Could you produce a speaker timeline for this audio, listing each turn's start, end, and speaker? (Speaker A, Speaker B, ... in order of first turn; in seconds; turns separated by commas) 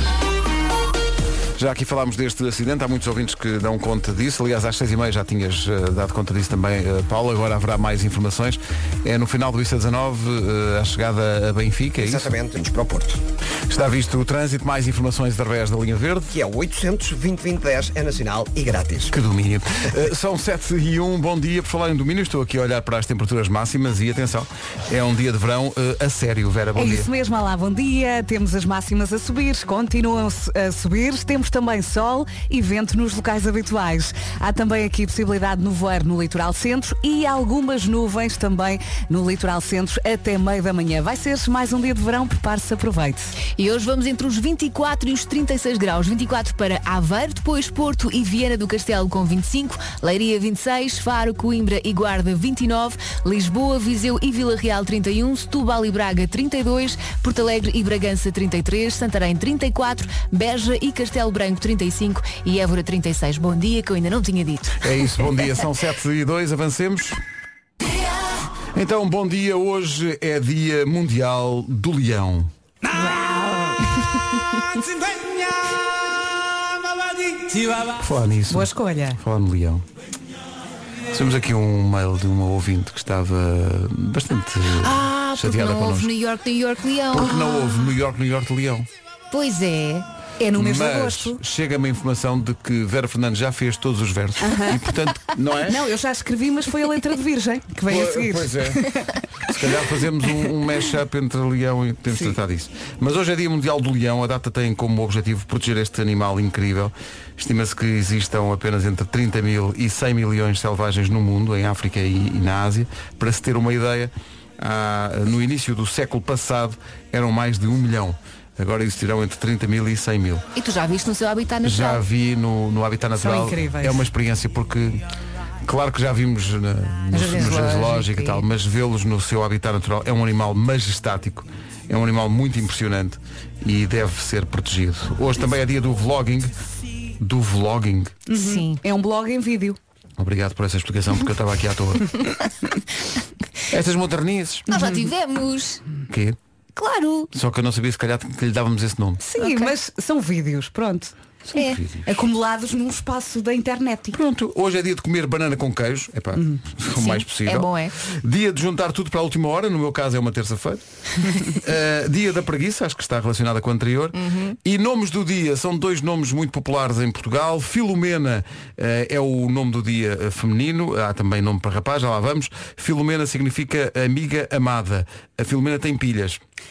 Speaker A: 1.6-12.3, Speaker B: 12.0-13.2, Speaker A: 13.7-16.3, Speaker B: 16.3-19.1, Speaker A: 19.1-27.1, Speaker C: 26.8-43.3, Speaker D: 43.5-64.8, Speaker A: 64.8-67.2, Speaker A: 68.7-72.5, Speaker D: 73.0-73.2, Speaker C: 73.0-73.7, Speaker A: 77.9-79.8, Speaker C: 78.5-79.2, Speaker A: 81.1-86.1, Speaker D: 84.8-87.9, Speaker A: 87.1-88.9, Speaker D: 89.3-90.1, Speaker C: 90.4-91.4, Speaker A: 90.5-95.8, Speaker C: 94.4-94.9, Speaker C: 95.7-99.2, Speaker A: 97.9-98.9, Speaker A: 99.5-120.4, Speaker D: 120.5-122.0, Speaker A: 121.6-125.0, Speaker C: 123.2-124.1, Speaker A: 125.6-136.5, Speaker D: 127.1-128.4, Speaker A: 137.2-138.1, Speaker C: 138.3-139.8, Speaker D: 138.3-138.8, Speaker A: 140.2-142.1, Speaker A: 143.7-144.7, Speaker C: 144.7-145.1, Speaker D: 144.7-145.8, Speaker A: 146.1-146.4, Speaker D: 146.8-147.3, Speaker A: 147.3-149.2, Speaker C: 149.2-151.1, Speaker D: 149.4-149.7, Speaker D: 151.5-151.8, Speaker A: 151.5-152.1, Speaker C: 152.0-154.2, Speaker A: 154.1-160.8, Speaker C: 156.3-156.6, Speaker D: 156.9-157.9, Speaker A: 161.4-176.4, Speaker D: 164.1-164.6